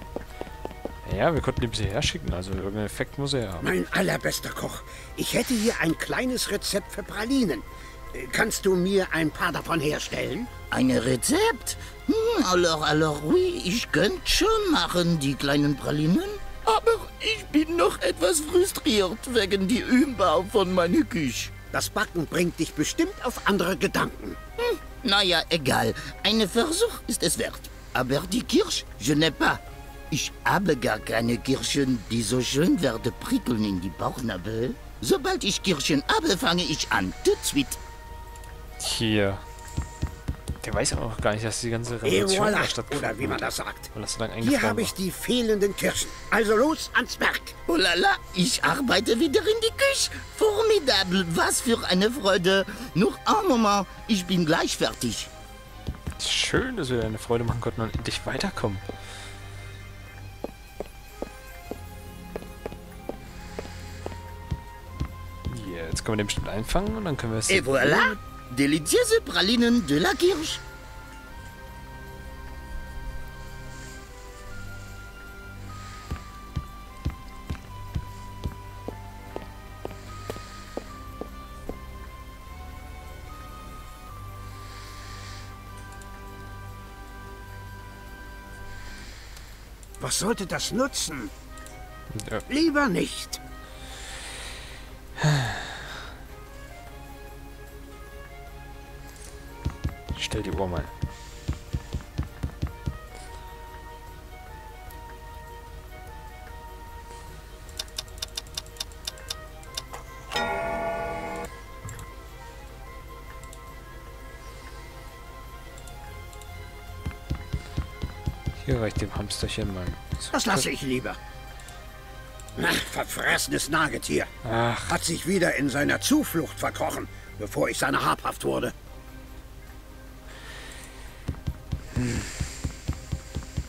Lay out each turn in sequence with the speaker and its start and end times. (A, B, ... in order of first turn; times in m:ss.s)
0:01.0-0:03.7 A
0:03.6-0:10.5 B
0:10.7-0:21.5 C
0:21.7-0:24.4 B
0:24.6-0:37.8 C
0:38.8-0:39.4 A
0:40.6-0:45.0 A
0:42.0-0:47.6 B
0:47.7-0:55.3 C
0:56.2-0:58.8 A
1:05.5-1:08.2 A
1:07.5-1:10.6 C
1:30.0-1:31.3 B
1:32.1-1:32.4 A
1:32.5-1:33.4 B
1:40.1-1:40.9 A
1:58.6-2:00.7 A
2:00.3-2:01.2 B
2:02.6-2:04.3 B
2:04.4-2:05.0 A
2:04.9-2:08.7 B
2:12.0-2:12.2 A